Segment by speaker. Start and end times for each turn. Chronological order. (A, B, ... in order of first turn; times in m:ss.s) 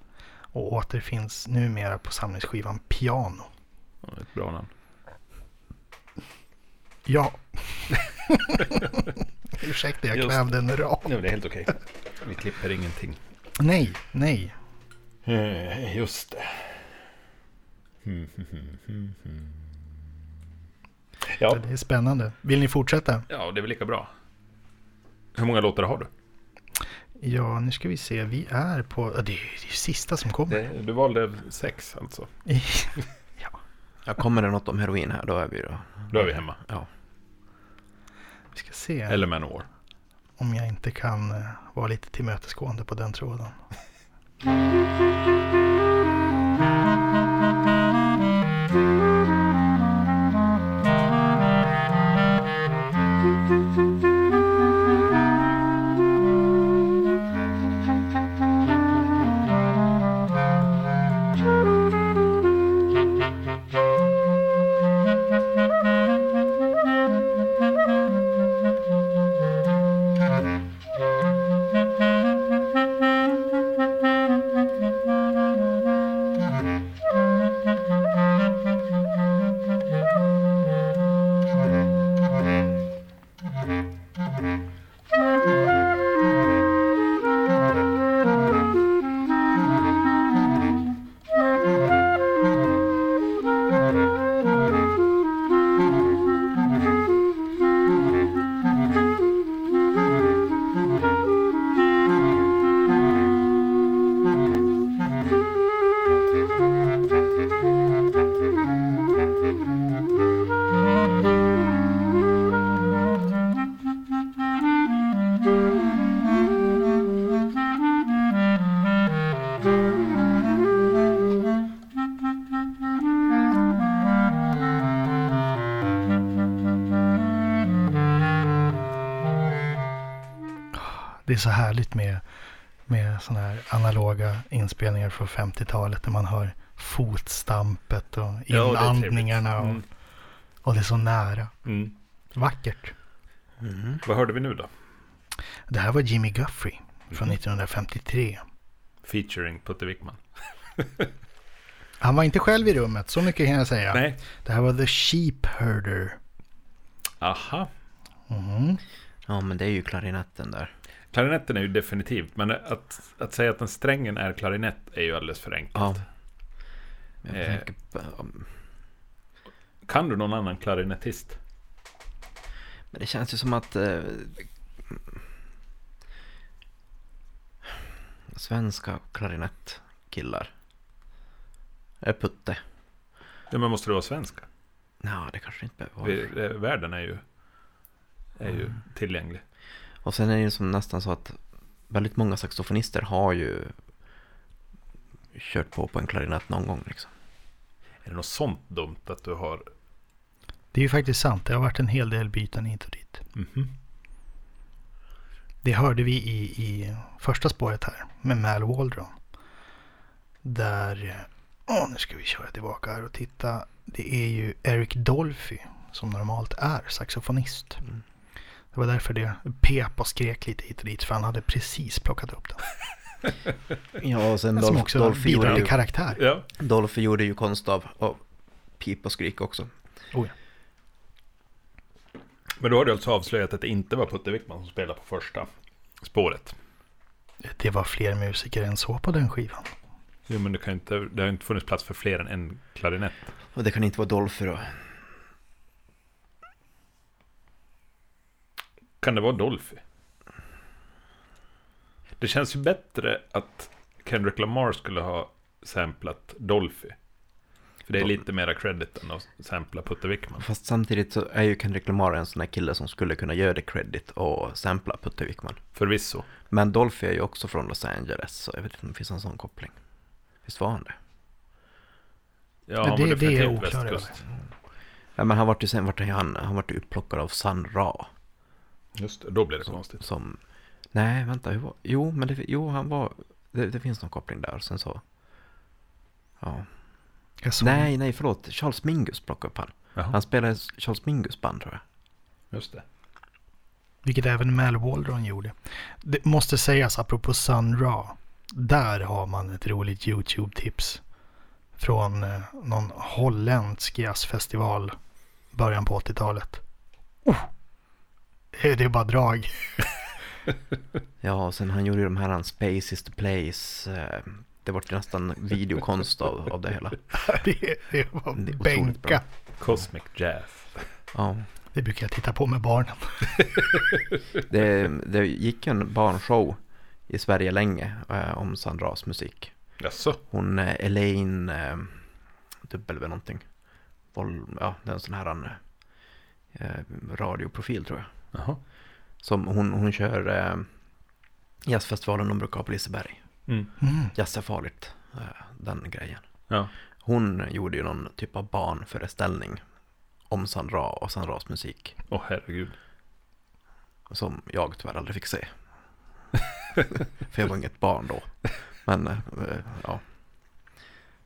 0:00.5-0:03.5 A
0:04.0-0:04.7 B
0:07.1-0:09.0 A
0:09.6-0:11.1 A
0:10.1-0:10.5 B
0:11.0-0:13.2 B
0:13.6-0:14.5 A
0:15.3-0:16.9 B
0:18.0-0:19.7 B
0:21.3-0:21.6 B
0:21.5-0:23.3 A
0:23.3-0:24.1 B
0:25.4-0:26.1 B
0:27.2-0:30.6 A
0:30.5-0:32.3 B
0:32.5-0:33.6 A
0:34.1-0:36.9 C
0:36.1-0:36.6 B
0:38.5-0:39.2 A
0:39.1-0:39.7 B
0:40.4-0:43.6 A
2:10.7-2:12.2 A
2:12.9-2:19.8 A
2:18.5-2:19.8 B
2:20.6-2:21.5 A
2:21.6-2:21.9 B
2:22.4-2:23.0 A
2:23.6-2:24.0 C
2:24.0-2:24.7 B
2:25.7-2:28.4 A
2:29.0-2:30.2 B
2:30.8-2:31.1 B
2:32.0-2:36.2 A
2:33.9-2:34.2 B
2:37.2-2:37.7 B
2:38.3-2:38.8 A
2:39.3-2:40.7 C
2:41.1-2:46.0 B
2:45.7-2:46.0 C
2:47.2-2:48.5 C
2:47.3-2:47.6 B
2:49.9-2:51.4 B
2:52.9-2:55.0 C
2:58.3-3:00.5 C
3:02.0-3:02.6 C
3:03.5-3:04.5 B
3:05.0-3:06.3 C
3:06.0-3:07.2 B
3:08.4-3:09.4 B
3:10.0-3:11.4 C
3:11.9-3:13.7 C
3:15.3-3:17.1 C
3:18.0-3:19.7 B
3:20.7-3:23.2 A
3:23.4-3:23.7 B
3:25.6-3:29.1 A
3:30.4-3:37.8 A
3:38.7-3:42.6 A
3:44.0-3:45.8 C
3:44.6-3:46.2 A
3:45.4-3:46.4 B
3:46.6-3:48.2 C
3:48.8-3:49.7 C
3:52.6-3:55.5 B
3:56.0-3:56.6 B
3:57.4-3:59.8 A
4:00.3-4:03.3 B
4:03.6-4:04.9 C
4:09.0-4:09.8 B
4:12.2-4:17.0 B
4:17.9-4:20.4 B
4:20.4-4:25.6 C
4:25.8-4:26.3 B
4:26.5-4:29.8 C
4:30.4-4:31.0 C
4:32.7-4:34.2 B
4:32.8-4:34.2 A
4:35.2-4:38.1 C
4:39.0-4:40.0 B
4:40.0-4:40.4 C
4:40.9-4:45.0 C
4:46.4-4:46.7 C
4:47.4-4:47.9 A
4:47.6-4:51.8 C
4:52.5-4:52.8 B
4:54.0-5:01.0 A
5:01.8-5:05.0 A
5:05.5-5:06.6 A
5:08.5-5:09.6 A
5:11.2-5:17.0 C
5:17.2-5:19.2 A
5:18.4-5:19.2 C
5:19.6-5:20.9 B
5:21.1-5:21.5 C
5:21.7-5:23.3 A
5:24.5-5:29.7 C
5:29.8-5:30.2 B
5:30.3-5:32.0 C
5:32.6-5:33.5 C
5:34.1-5:35.6 C
5:36.5-5:38.1 C
5:38.3-5:38.6 B
5:39.2-5:40.7 C
5:41.6-5:43.2 C
5:43.8-5:44.1 A
5:44.1-5:46.3 C
5:47.0-5:49.6 C
5:50.3-5:52.0 C
5:52.1-5:52.8 B
5:54.1-5:55.5 C
5:57.3-6:00.0 C